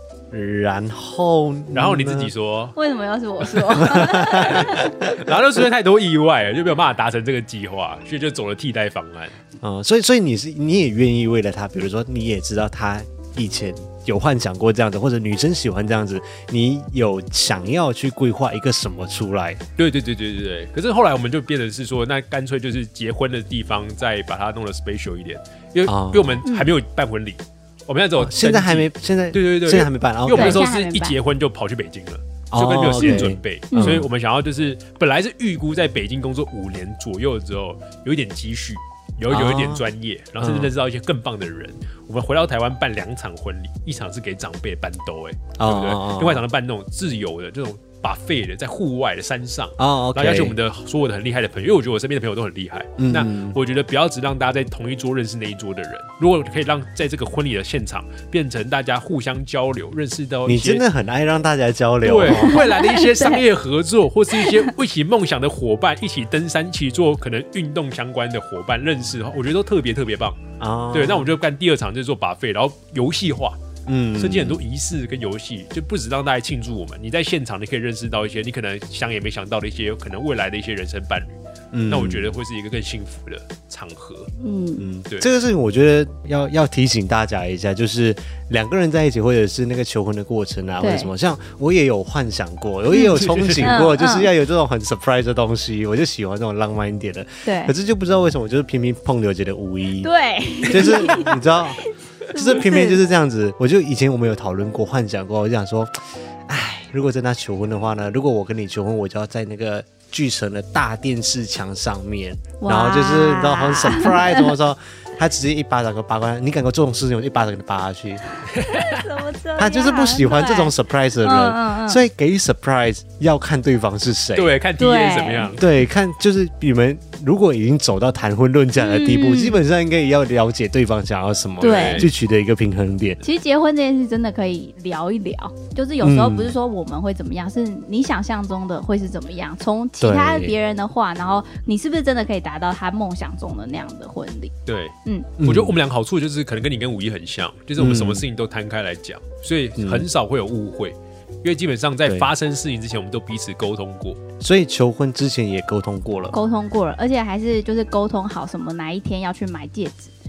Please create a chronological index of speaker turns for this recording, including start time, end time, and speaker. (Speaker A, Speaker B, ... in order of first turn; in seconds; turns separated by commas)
Speaker A: 0.3-2.3, Speaker B: 1.7-2.8, Speaker C: 2.8-4.9, Speaker A: 3.8-5.2, Speaker B: 4.4-9.4, Speaker A: 9.6-19.6, Speaker B: 19.8-60.8, Speaker A: 25.9-26.4, Speaker C: 26.4-26.7, Speaker A: 28.2-30.6, Speaker C: 30.3-31.2, Speaker A: 32.5-34.1, Speaker C: 33.0-34.0, Speaker A: 39.3-39.8, Speaker A: 40.4-40.7, Speaker A: 45.6-46.4, Speaker A: 49.8-50.6, Speaker A: 53.0-53.6, Speaker A: 60.5-62.7, Speaker B: 62.0-70.4, Speaker C: 62.3-63.4, Speaker C: 64.4-64.7, Speaker A: 70.6-71.3, Speaker B: 70.9-73.6, Speaker A: 73.9-74.6, Speaker B: 74.2-81.4, Speaker A: 81.7-82.3, Speaker B: 81.9-84.3, Speaker C: 84.4-84.9, Speaker A: 84.8-100.1, Speaker C: 90.8-91.1, Speaker C: 92.9-94.3, Speaker B: 93.2-93.7, Speaker C: 97.5-97.7, Speaker C: 100.0-101.3, Speaker A: 100.7-101.8, Speaker C: 102.3-103.0, Speaker A: 102.3-118.2, Speaker C: 112.6-114.5, Speaker B: 118.6-119.0, Speaker C: 118.6-122.0, Speaker A: 119.6-124.5, Speaker B: 124.3-125.7, Speaker C: 124.8-125.5, Speaker A: 125.6-133.2, Speaker C: 128.8-129.6, Speaker C: 131.6-132.1, Speaker B: 131.6-132.1, Speaker C: 133.2-144.5, Speaker A: 136.0-136.6, Speaker A: 140.0-140.6, Speaker B: 144.7-154.2, Speaker A: 145.4-145.8, Speaker A: 147.8-148.2, Speaker A: 149.8-150.1, Speaker A: 154.4-156.3, Speaker C: 156.3-160.1